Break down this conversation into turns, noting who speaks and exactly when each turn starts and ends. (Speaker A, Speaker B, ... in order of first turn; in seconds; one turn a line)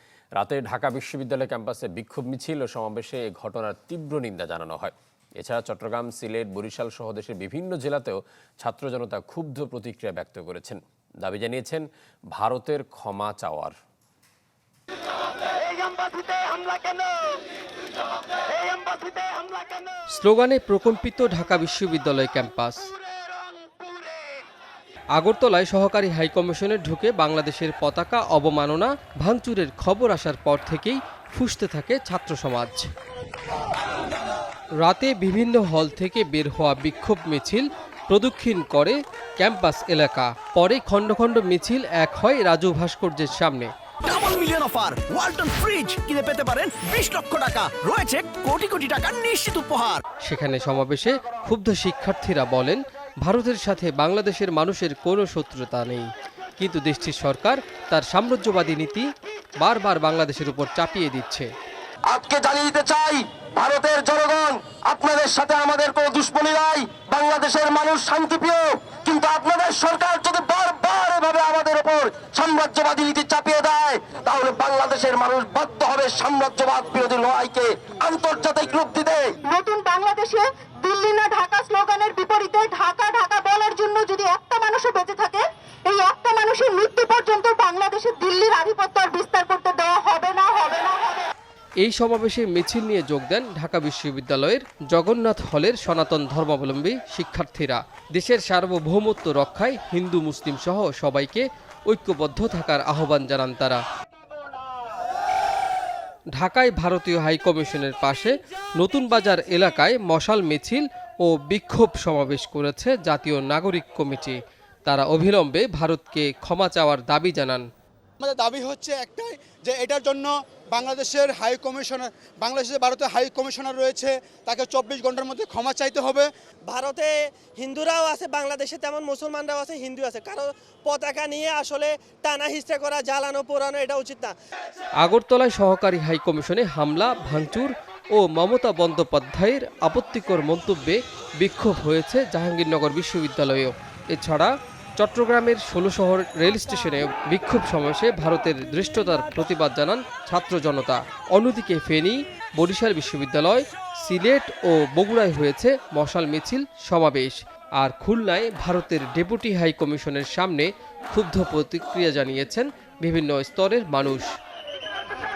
Speaker A: 0.3-13.8
Speaker B: 20.1-22.8
Speaker B: 25.1-32.9
Speaker B: 34.8-43.7
Speaker C: 44.0-50.0
Speaker B: 50.2-59.1
Speaker B: 59.6-61.5
Speaker D: 62.1-79.3
Speaker E: 79.4-91.3
Speaker B: 91.8-103.8
Speaker B: 106.3-117.6
Speaker F: 118.2-126.3
Speaker G: 126.7-134.3
Speaker B: 135.0-164.3